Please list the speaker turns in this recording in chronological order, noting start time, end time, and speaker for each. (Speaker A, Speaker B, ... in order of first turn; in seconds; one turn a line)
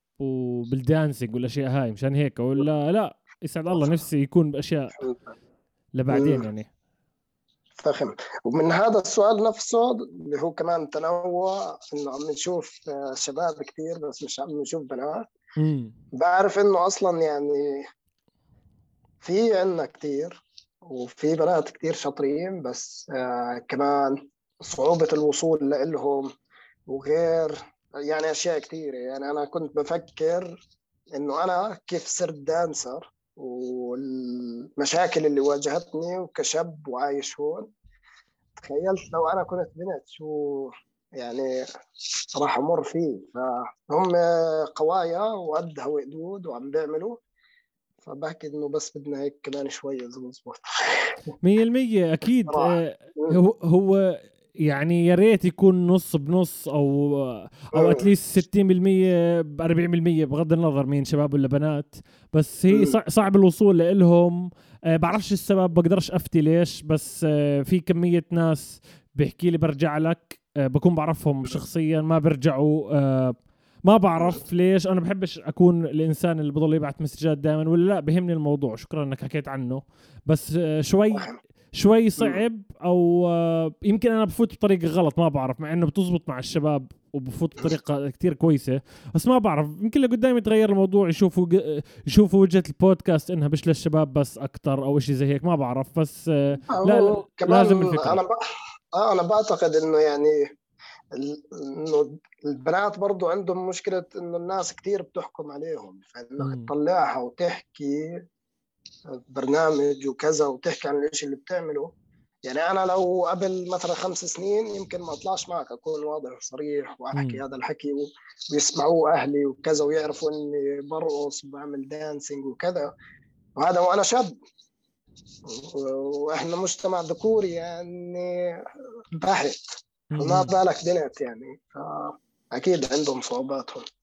Speaker A: 0.2-5.0
Speaker A: 6.0-6.7
Speaker B: 6.1-6.5
Speaker B: 7.8-15.2
Speaker A: 15.6-15.9
Speaker B: 16.1-17.9
Speaker B: 19.2-26.3
Speaker B: 26.9-30.6
Speaker B: 31.1-37.7
Speaker B: 38.6-41.5
Speaker B: 42.4-47.2
Speaker B: 48.0-51.2
Speaker A: 51.4-98.2
Speaker B: 52.5-53.4
Speaker B: 57.8-58.1
Speaker B: 62.7-63.0
Speaker B: 96.7-98.4
Speaker B: 99.0-100.4
Speaker B: 101.1-108.1
Speaker A: 106.4-106.7
Speaker B: 109.3-111.9
Speaker B: 112.5-122.9
Speaker A: 117.2-117.4
Speaker B: 123.6-124.4
Speaker B: 125.5-128.4
Speaker B: 129.2-133.9
Speaker A: 130.1-130.5